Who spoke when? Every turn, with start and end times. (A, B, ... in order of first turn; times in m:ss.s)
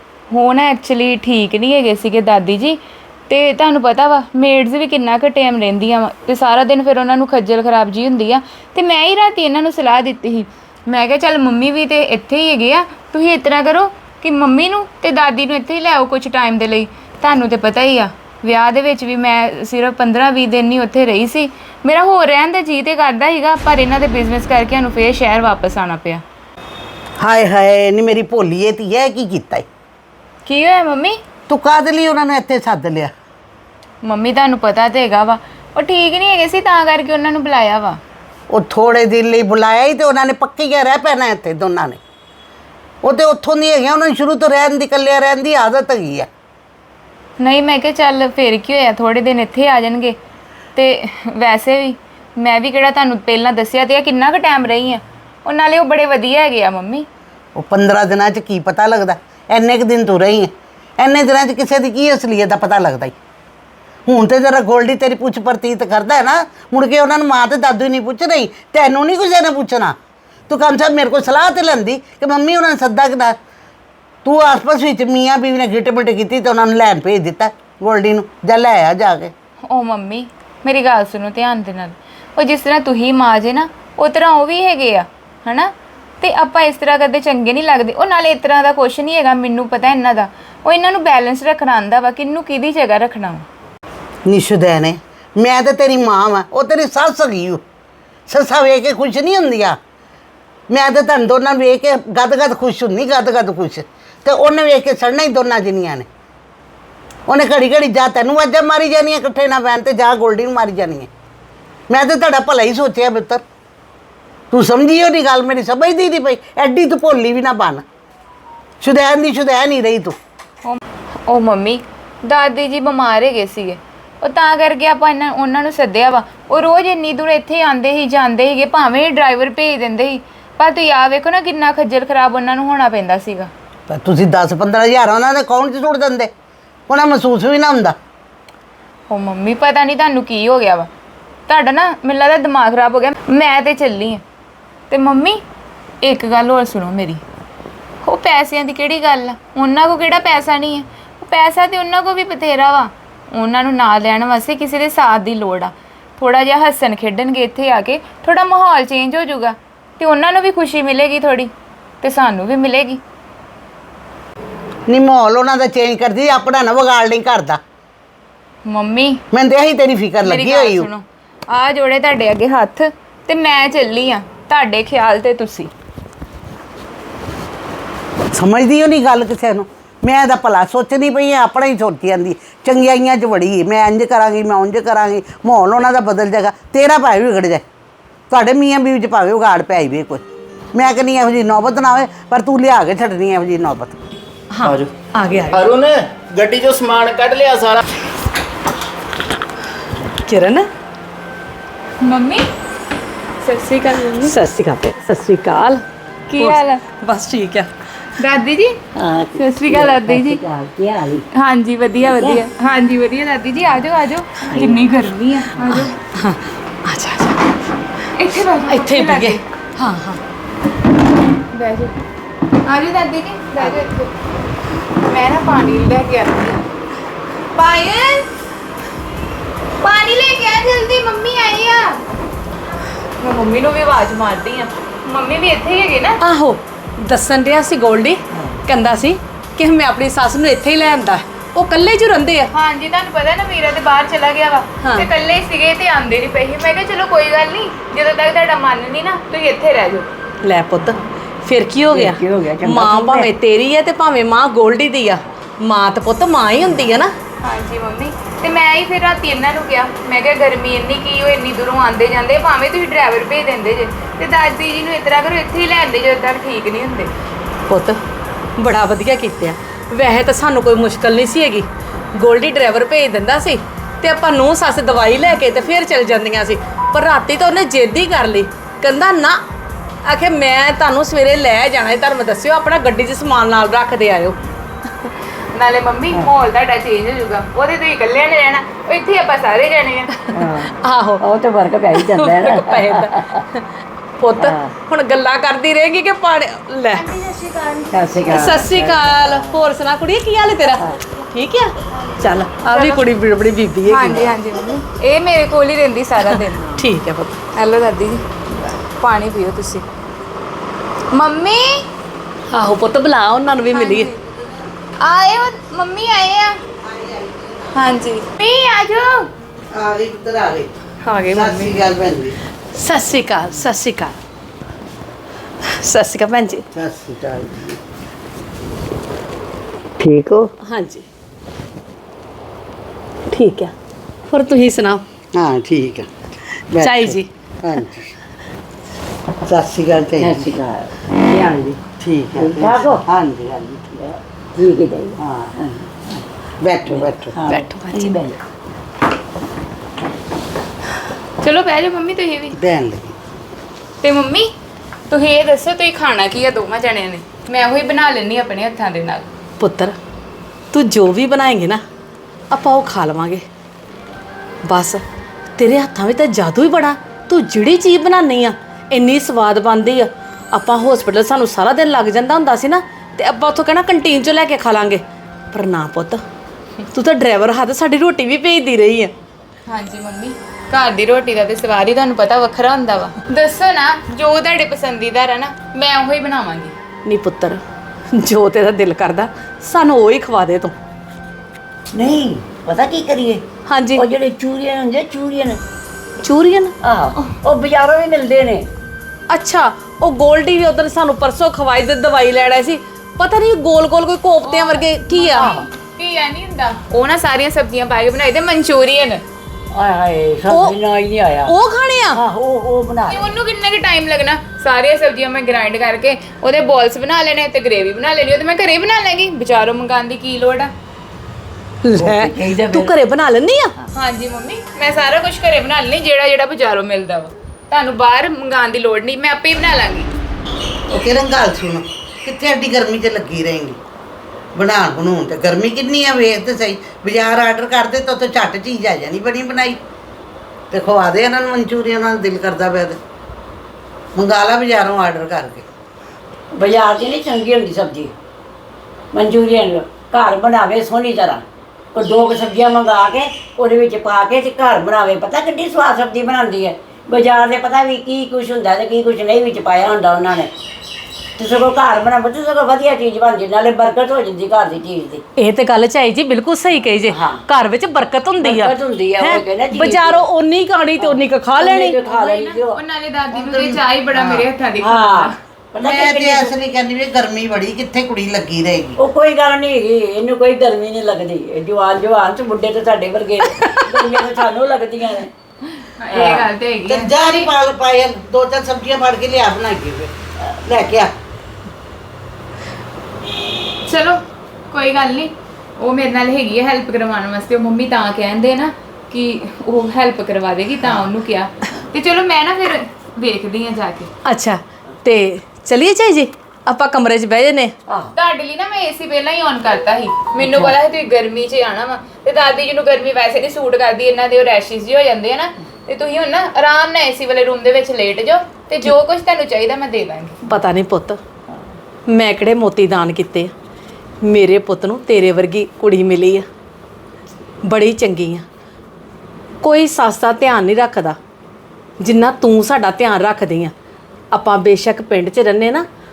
0:00.3-0:26.2 A
0:27.2-0:29.7 B
0:30.4-0:31.2 A
0:31.5-0:33.1 B
0:34.0-0:38.0 A
0:38.5-0:42.0 B
0:43.0-0:46.3 B
0:47.4-0:50.2 A
0:50.8-0:57.1 A
0:57.6-1:03.2 B
1:04.1-1:10.0 B
1:10.5-1:13.4 B
1:14.2-1:19.3 B
1:19.7-1:33.4 A
1:34.3-1:37.6 B
1:38.3-1:39.8 B
1:40.7-1:46.1 B
1:47.3-1:51.1 B
1:51.9-1:53.4 B
1:54.5-1:57.8 B
1:58.8-2:00.2 B
2:00.6-2:13.5 A
2:13.9-2:16.3 B
2:16.9-2:18.0 B
2:19.1-2:20.9 A
2:21.5-2:24.2 A
2:24.9-2:25.4 A
2:26.0-2:27.2 A
2:28.0-2:43.0 A
2:44.9-2:47.6 B
2:48.7-2:49.2 A
2:49.3-2:50.9 B
2:50.2-2:55.7 A
2:58.3-3:07.6 B
3:08.3-3:10.2 B
3:10.7-3:14.0 B
3:14.5-3:15.7 C
3:14.6-3:14.9 D
3:15.5-3:17.8 D
3:20.3-3:20.7 C
3:22.0-3:22.5 A
3:23.4-3:24.4 A
3:24.2-3:25.8 C
3:26.3-3:26.8 A
3:26.4-3:27.7 C
3:28.2-3:28.8 A
3:29.0-3:31.3 E
3:29.4-3:30.4 A
3:31.3-3:36.0 A
3:32.0-3:32.4 E
3:34.5-3:34.9 E
3:35.7-3:37.4 C
3:38.1-3:39.4 A
3:38.6-3:40.2 C
3:41.5-3:42.0 A
3:42.6-3:44.1 A
3:45.0-3:46.7 A
3:47.6-3:48.3 A
3:49.8-3:52.0 A
3:53.2-3:56.2 A
3:56.2-4:02.5 C
4:02.5-4:10.1 A
4:04.8-4:05.1 C
4:10.4-4:17.1 C
4:11.9-4:13.3 E
4:17.4-4:27.1 A
4:27.7-4:28.0 C
4:28.6-4:39.4 C
4:40.1-4:44.4 C
4:45.5-4:50.3 A
4:50.3-4:53.4 E
4:50.8-4:51.2 C
4:52.0-4:53.7 C
4:54.2-4:57.2 C
4:54.4-4:54.7 E
4:57.2-4:57.8 A
4:57.9-4:59.6 E
4:58.3-5:04.4 C
5:02.7-5:03.1 A
5:03.9-5:06.8 A
5:06.3-5:07.4 C
5:07.6-5:08.2 A
5:09.0-5:09.8 A
5:11.1-5:11.8 A
5:12.5-5:14.1 C
5:13.8-5:14.1 A
5:14.2-5:14.7 B
5:15.0-5:16.6 A
5:16.8-5:17.7 B
5:17.8-5:19.3 A
5:19.7-5:20.7 B
5:21.0-5:21.8 C
5:21.3-5:22.4 B
5:22.7-5:24.2 C
5:25.7-5:26.6 C
5:26.7-5:27.8 B
5:30.0-5:30.5 E
5:30.7-5:31.0 C
5:33.3-5:33.7 C
5:34.3-5:35.0 C
5:35.3-5:36.1 B
5:36.7-5:38.2 B
5:36.8-5:37.3 C
5:39.4-5:40.6 B
5:40.2-5:41.8 E
5:42.0-5:44.0 B
5:42.4-5:43.0 E
5:44.0-5:46.3 E
5:45.2-5:45.6 B
5:46.6-5:47.4 B
5:46.9-5:48.4 E
5:47.5-5:48.2 C
5:51.4-5:52.6 A
5:52.6-5:53.2 B
5:54.0-5:54.5 A
5:55.1-5:59.3 A
5:59.6-6:00.0 C
6:00.7-6:01.8 C
6:02.5-6:03.4 C
6:04.6-6:05.0 C
6:05.6-6:16.2 C
6:16.9-6:19.1 C
6:19.7-6:26.7 A
6:27.1-6:30.8 C
6:31.9-6:33.4 E
6:33.7-6:34.0 C
6:34.0-6:35.6 E
6:36.2-6:36.8 C
6:36.8-6:38.7 E
6:39.3-6:45.6 C
6:44.4-6:49.2 A
6:45.4-6:45.7 E
6:49.7-6:51.5 E
6:50.5-6:50.8 C
6:51.4-6:52.2 C
6:52.1-6:53.3 E
6:53.1-7:00.7 A
7:01.8-7:03.8 C
7:02.0-7:02.9 E
7:03.9-7:10.1 A
7:10.9-7:13.8 B
7:14.6-7:19.8 B
7:20.7-7:23.0 B
7:24.2-7:25.6 B
7:26.5-7:28.2 E
7:29.1-7:40.5 E
7:41.4-7:45.2 E
7:45.4-7:52.0 C
7:47.1-7:47.4 E
7:48.4-7:50.3 E
7:51.0-7:52.8 E
7:52.0-7:55.4 A
7:53.3-7:54.2 B
7:54.3-7:56.5 E
7:55.8-7:59.0 B
7:59.0-8:05.3 E
8:03.5-8:04.2 C
8:05.8-8:07.5 A
8:06.2-8:06.4 E
8:06.9-8:11.1 B
8:13.8-8:24.1 A
8:24.2-8:27.7 C
8:28.2-8:40.4 A
8:30.4-8:30.7 E
8:40.4-8:41.2 C
8:42.1-8:43.5 C
8:44.2-8:46.5 C
8:47.6-8:48.5 C
8:49.6-8:51.2 C
8:52.0-8:53.7 C
8:54.3-8:55.9 C